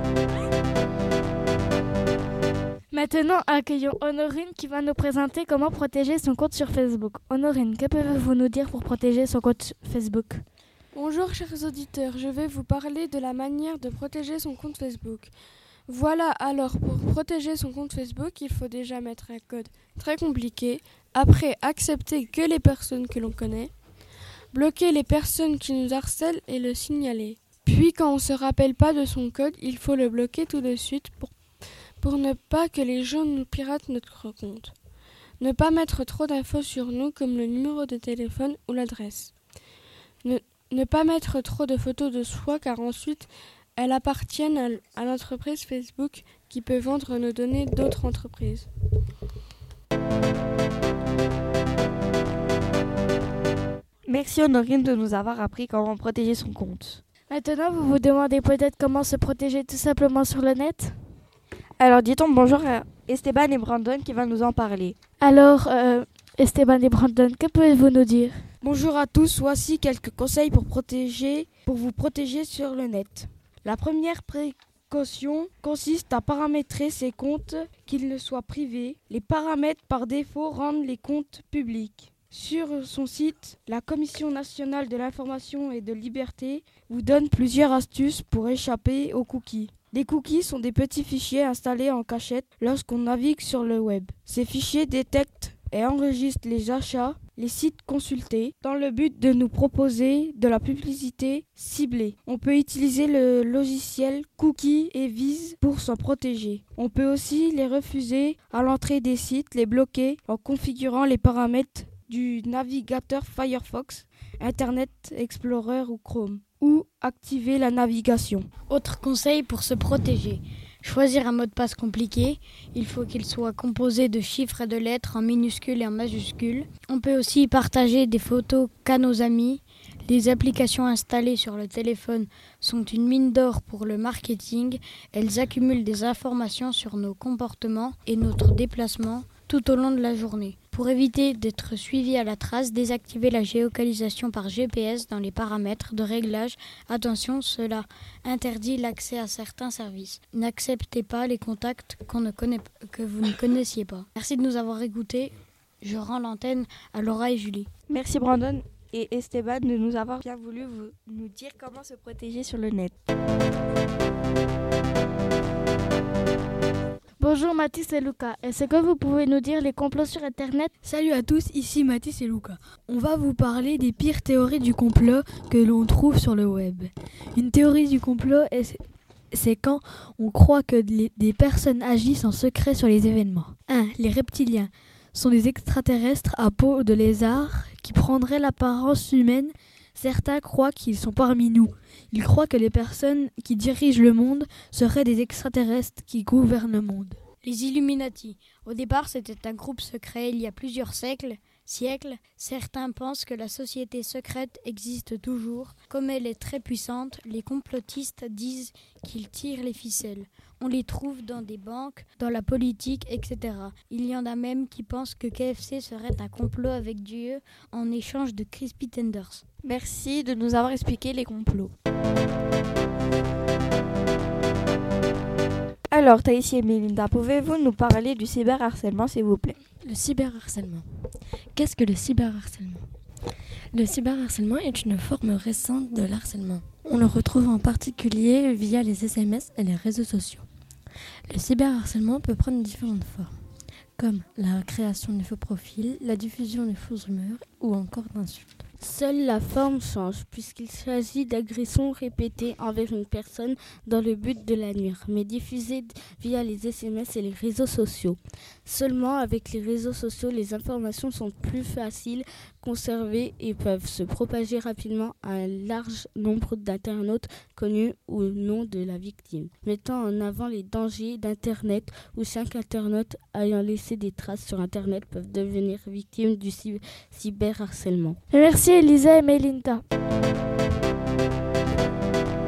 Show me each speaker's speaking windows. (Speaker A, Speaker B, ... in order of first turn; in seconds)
Speaker A: 2.9-10.4, 57.3-61.0, 65.2-68.5, 167.2-170.7, 278.3-279.8
Speaker B: 10.9-15.3, 15.9-23.7, 24.5-31.4, 32.0-34.8, 35.4-39.4, 40.2-48.7
Speaker C: 54.1-57.0, 61.8-65.0, 157.9-162.9, 219.6-221.7, 225.9-229.6
Speaker D: 68.6-118.5
Speaker E: 118.7-157.7, 197.4-219.4
Speaker F: 170.8-178.8, 179.3-197.2
Speaker G: 229.8-232.9, 233.7-240.5, 241.3-243.4, 244.0-248.6
Speaker H: 248.8-278.2